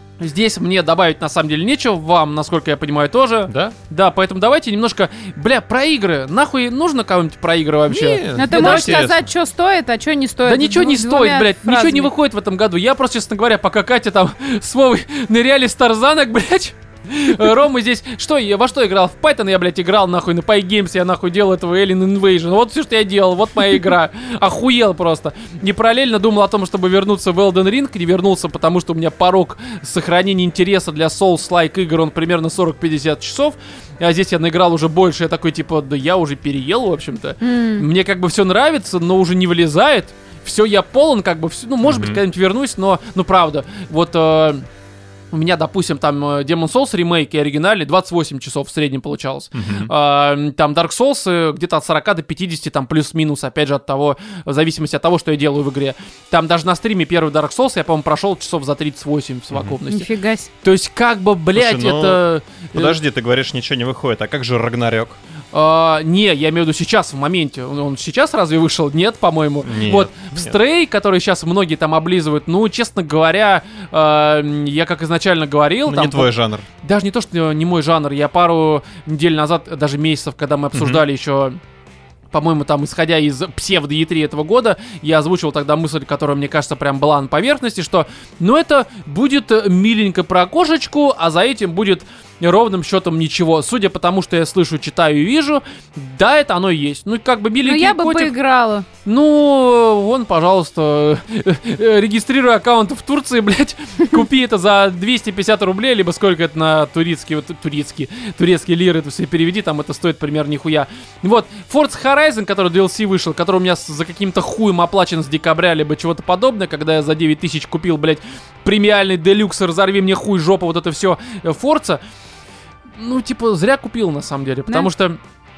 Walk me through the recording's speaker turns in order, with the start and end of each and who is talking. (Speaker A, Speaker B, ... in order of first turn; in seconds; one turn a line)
Speaker A: 0.2-9.0
Speaker B: 3.5-3.8
Speaker B: 7.9-9.3
Speaker C: 8.3-12.1
Speaker A: 10.4-44.6
Speaker C: 37.4-37.8
Speaker B: 41.8-42.2
Speaker A: 45.3-60.1
Speaker B: 49.5-49.9
Speaker C: 59.9-60.5
Speaker A: 60.6-62.9
Speaker B: 61.5-65.2
Speaker A: 65.5-76.3
Speaker B: 69.6-70.5
Speaker B: 75.8-76.6
Speaker A: 76.8-81.6
Speaker B: 80.7-81.0
Speaker A: 82.3-98.3
Speaker C: 97.6-98.9
Speaker A: 99.0-122.0
Speaker A: 123.0-125.2